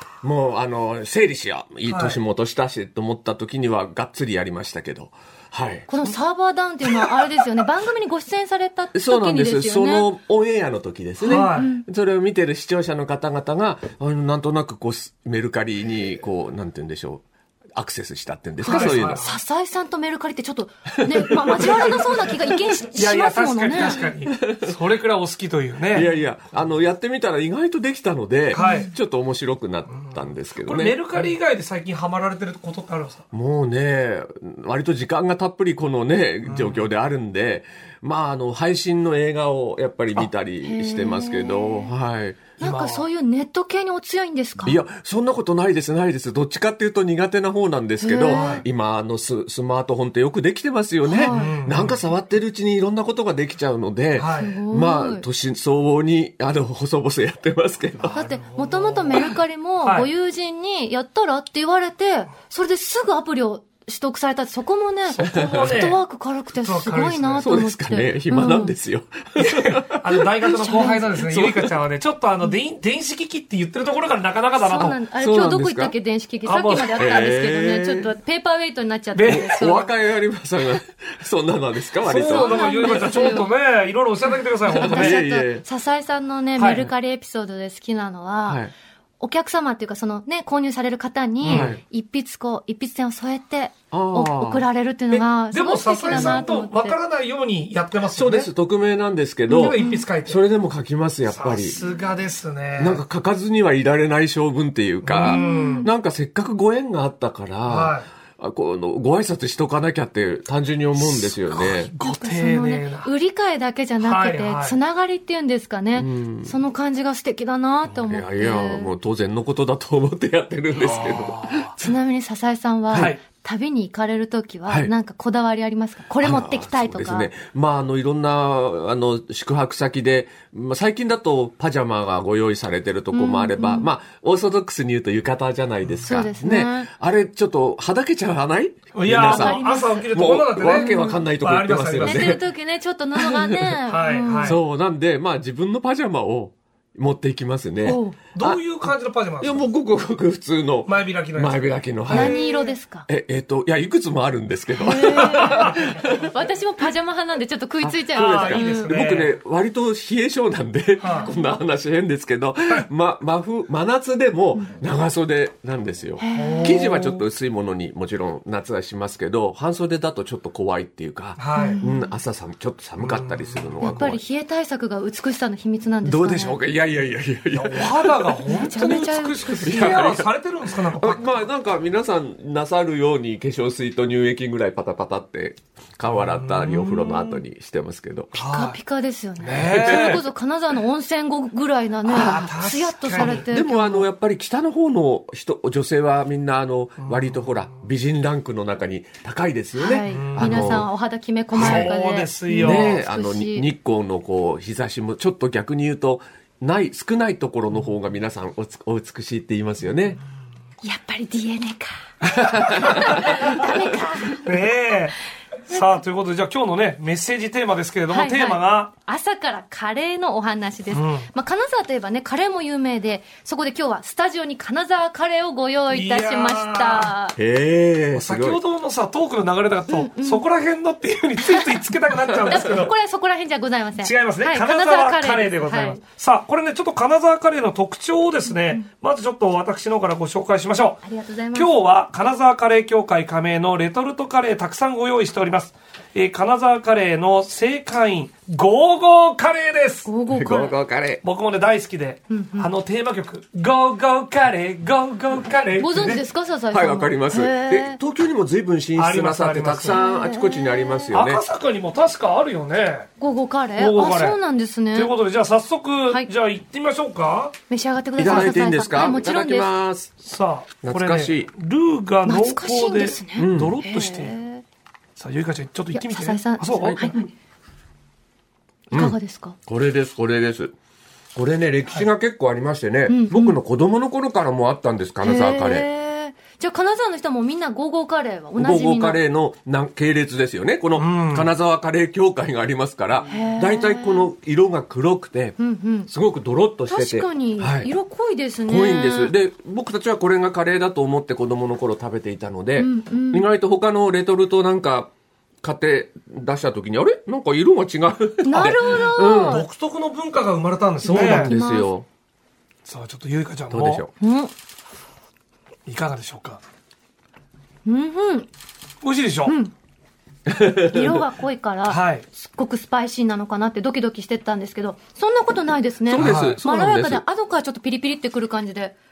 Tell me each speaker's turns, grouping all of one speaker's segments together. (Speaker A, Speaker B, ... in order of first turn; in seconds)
Speaker A: 0.2-5.9, 8.9-17.2, 17.8-19.2, 21.0-21.9, 24.2-24.8, 25.9-31.3, 33.3-42.6, 44.6-58.2, 65.2-65.9, 67.4-71.7, 74.8-75.9, 77.0-78.1, 79.3-83.4, 84.7-85.7, 88.5-88.7, 91.5-91.8, 93.9-94.6, 96.1-96.4, 98.1-101.8, 102.8-111.9, 116.0-116.5, 117.9-121.9, 126.2-142.4, 143.2-143.8, 144.4-148.6, 149.4-152.4, 153.1-156.3, 157.8-174.2, 176.0-178.5, 179.6-180.3, 180.9-188.3, 189.6-190.2, 193.1-200.9, 201.5-201.9, 202.6-210.2, 212.3-213.2, 227.4-228.6, 250.3-251.2, 256.7-261.4, 268.2-270.1, 270.8-271.5, 273.4-273.8, 276.7-277.1, 278.9-280.8, 281.4-285.9, 288.6-297.9, 298.7-305.1, 305.6-309.6, 311.1-312.1, 313.7-314.1, 320.5-321.2, 326.1-327.2
Speaker B: 1.9-2.2, 11.2-11.7, 18.7-19.4, 21.5-22.4, 22.9-26.1, 28.5-28.9, 29.9-33.2, 36.5-36.9, 42.6-43.1, 48.3-48.6, 51.3-52.0, 54.2-54.6, 58.0-59.3, 59.8-60.1, 65.1-66.0, 66.6-67.5, 69.4-75.0, 76.5-77.3, 79.2-79.5, 82.0-85.2, 86.6-86.9, 91.4-91.8, 95.1-98.5, 99.5-100.4, 101.3-103.0, 105.0-105.9, 107.7-108.1, 111.0-113.1, 114.0-114.8, 120.8-121.7, 122.9-123.2, 138.9-142.4, 143.9-144.6, 148.3-149.7, 150.9-152.6, 155.4-155.8, 158.1-159.3, 161.0-161.3, 166.3-167.2, 171.4-171.8, 173.0-173.8, 177.5-181.3, 186.2-187.4, 188.4-188.8, 189.4-190.2, 192.1-193.5, 197.0-197.3, 200.1-200.8, 201.6-202.9, 212.7-213.1, 214.3-215.2, 215.7-218.9, 220.9-221.3, 225.9-227.1, 228.1-232.9, 234.0-241.0, 241.5-250.1, 251.2-256.2, 259.0-260.0, 261.1-263.1, 263.8-264.4, 264.9-267.6, 270.2-274.4, 275.2-277.2, 291.0-291.5, 309.4-311.5, 312.9-314.0, 315.9-316.6, 319.0-319.6, 321.9-322.2, 326.2-326.6
Speaker C: 5.9-10.1, 11.2-11.8, 18.6-24.0, 28.5-28.9, 40.6-41.9, 42.6-44.8, 48.0-48.6, 51.0-51.6, 54.3-55.2, 58.1-68.8, 70.6-71.2, 74.6-79.9, 82.3-83.5, 84.8-88.7, 89.2-97.0, 99.5-100.0, 105.2-105.9, 112.0-118.9, 121.8-127.3, 133.1-133.9, 136.1-136.9, 139.2-140.1, 140.7-141.2, 142.0-144.6, 147.8-148.2, 152.1-153.1, 154.8-158.9, 161.0-161.3, 166.2-166.8, 171.6-172.1, 173.8-176.6, 178.5-180.0, 188.4-194.1, 199.8-203.7, 210.8-212.1, 212.7-214.5, 218.1-227.4, 229.9-230.4, 231.5-231.8, 232.4-236.0, 238.5-238.8, 241.0-241.7, 250.1-250.8, 252.3-252.7, 255.8-258.0, 259.9-261.1, 263.2-265.1, 267.7-269.7, 272.3-274.6, 275.9-277.3, 278.9-279.6, 283.1-283.6, 285.2-289.2, 293.3-294.3, 295.6-296.1, 296.9-299.3, 302.8-303.5, 308.4-309.7, 311.0-311.9, 314.2-314.5, 317.9-318.5, 319.5-319.7, 320.8-329.0